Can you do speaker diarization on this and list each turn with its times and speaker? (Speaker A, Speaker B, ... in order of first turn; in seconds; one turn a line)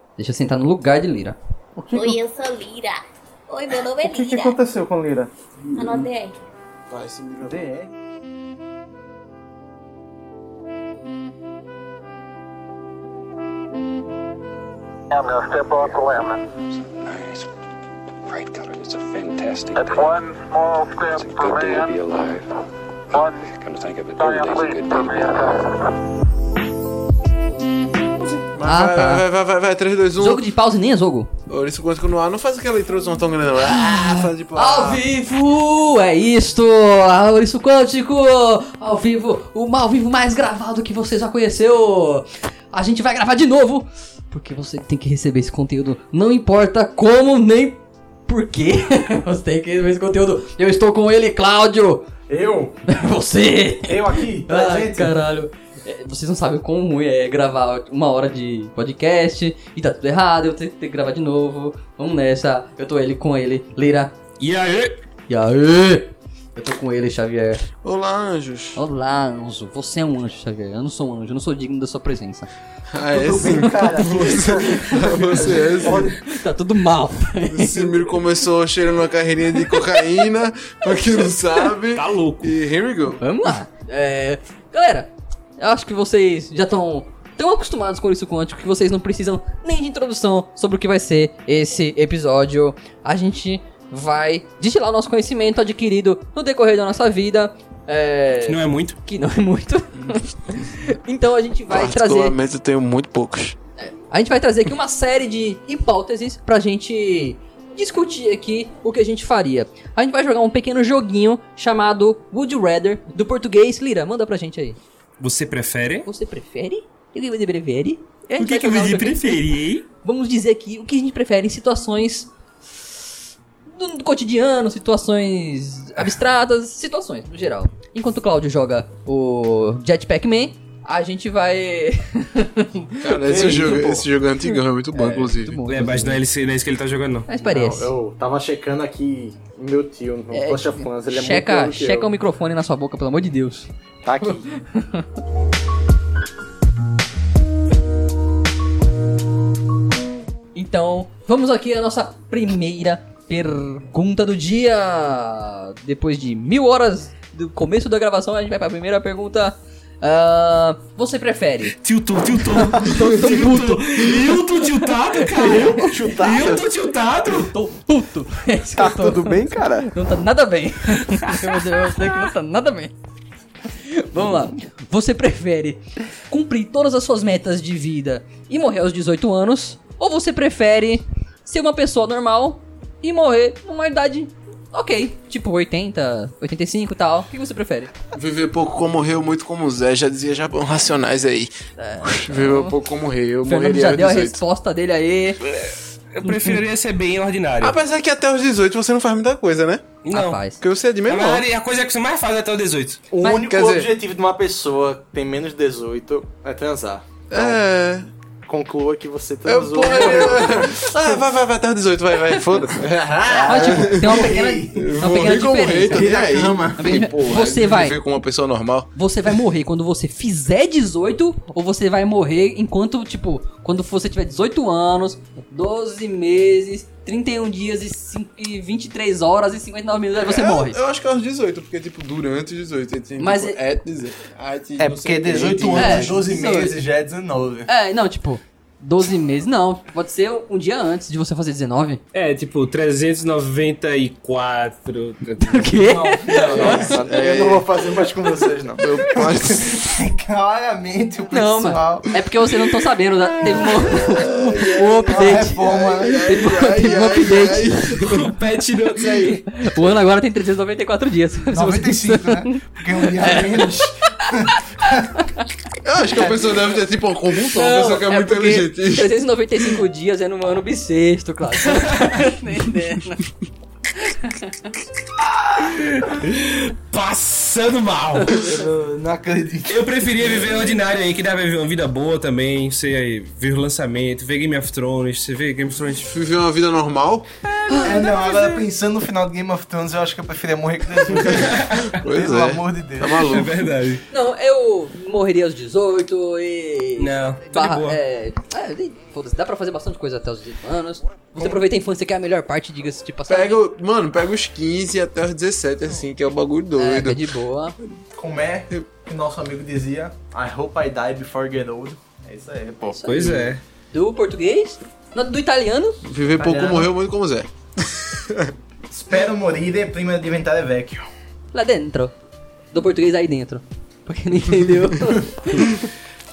Speaker A: 0.2-1.4
Speaker B: 1.8-2.1
Speaker C: 1.9-4.6
Speaker B: 4.0-4.7
Speaker D: 4.2-5.3
Speaker C: 5.7-6.3
Speaker B: 5.8-6.0
Speaker B: 6.9-7.7
Speaker D: 7.4-7.9
Speaker E: 15.1-16.4
Speaker F: 15.5-17.5
Speaker F: 18.2-22.5
Speaker E: 19.8-21.9
Speaker F: 23.1-25.7
Speaker E: 24.2-25.5
Speaker B: 28.5-30.4
Speaker A: 28.6-29.2
Speaker A: 30.2-31.3
Speaker B: 31.5-35.0
Speaker A: 33.6-52.0
Speaker D: 52.3-52.8
Speaker A: 52.9-64.1
Speaker D: 53.8-55.1
Speaker G: 64.4-65.0
Speaker A: 65.3-67.7
Speaker B: 67.8-68.8
Speaker A: 68.8-72.5
Speaker B: 72.9-76.2
Speaker D: 73.1-76.2
Speaker A: 74.4-78.2
Speaker B: 77.5-83.2
Speaker A: 79.7-80.0
Speaker G: 81.9-82.5
Speaker A: 83.2-102.4
Speaker G: 98.5-99.0
Speaker B: 101.7-103.6
Speaker A: 103.8-114.8
Speaker G: 115.2-116.1
Speaker A: 116.0-119.4
Speaker G: 118.4-119.8
Speaker A: 120.0-122.3
Speaker A: 123.7-133.6
Speaker B: 133.0-135.7
Speaker D: 133.1-134.1
Speaker A: 134.9-136.2
Speaker G: 135.7-137.3
Speaker A: 137.3-137.9
Speaker D: 137.4-142.1
Speaker A: 140.3-143.7
Speaker D: 144.0-144.4
Speaker A: 144.2-145.1
Speaker A: 150.5-161.8
Speaker G: 161.7-167.5
Speaker A: 162.5-165.8
Speaker D: 165.3-166.7
Speaker A: 167.3-169.4
Speaker D: 168.7-169.9
Speaker A: 169.9-172.9
Speaker A: 173.7-187.9
Speaker B: 188.1-194.4
Speaker A: 191.8-192.8
Speaker A: 193.4-195.5
Speaker G: 195.4-197.8
Speaker A: 196.2-196.6
Speaker B: 197.6-199.9
Speaker G: 200.0-200.4
Speaker A: 200.1-200.6
Speaker B: 200.6-201.4
Speaker G: 201.1-203.0
Speaker D: 203.1-207.6
Speaker B: 203.2-203.9
Speaker B: 207.3-208.1
Speaker D: 208.4-211.1
Speaker B: 209.4-218.9
Speaker A: 209.9-210.8
Speaker D: 213.0-214.9
Speaker A: 213.3-216.1
Speaker D: 215.8-216.9
Speaker A: 216.8-218.0
Speaker A: 218.9-230.8
Speaker B: 230.1-236.2
Speaker A: 233.2-233.6
Speaker D: 234.8-237.7
Speaker A: 235.7-236.8
Speaker A: 237.7-242.0
Speaker G: 242.1-245.8
Speaker A: 245.4-246.9
Speaker D: 245.8-252.1
Speaker B: 246.4-249.9
Speaker G: 246.5-246.8
Speaker A: 251.3-258.1
Speaker B: 253.3-258.3
Speaker D: 255.1-256.3
Speaker G: 258.0-259.4
Speaker A: 259.5-262.6
Speaker D: 261.5-265.1
Speaker A: 263.1-265.4
Speaker B: 265.8-269.1
Speaker D: 266.2-266.5
Speaker A: 267.5-273.3
Speaker G: 271.8-272.1
Speaker A: 273.9-274.7
Speaker G: 275.6-278.4
Speaker D: 278.4-279.8
Speaker G: 279.7-286.1
Speaker B: 286.0-287.3
Speaker G: 287.4-288.6
Speaker A: 287.7-288.0
Speaker D: 287.8-293.3
Speaker G: 291.2-291.9
Speaker B: 291.2-293.7
Speaker G: 293.3-294.0
Speaker A: 294.1-303.6
Speaker G: 297.0-298.0
Speaker B: 303.3-307.3
Speaker A: 306.8-307.7
Speaker D: 308.1-313.0
Speaker A: 312.9-316.0
Speaker G: 313.0-313.6
Speaker B: 316.0-318.5
Speaker D: 316.3-316.9
Speaker D: 318.9-321.1
Speaker A: 321.5-322.1
Speaker A: 322.7-325.9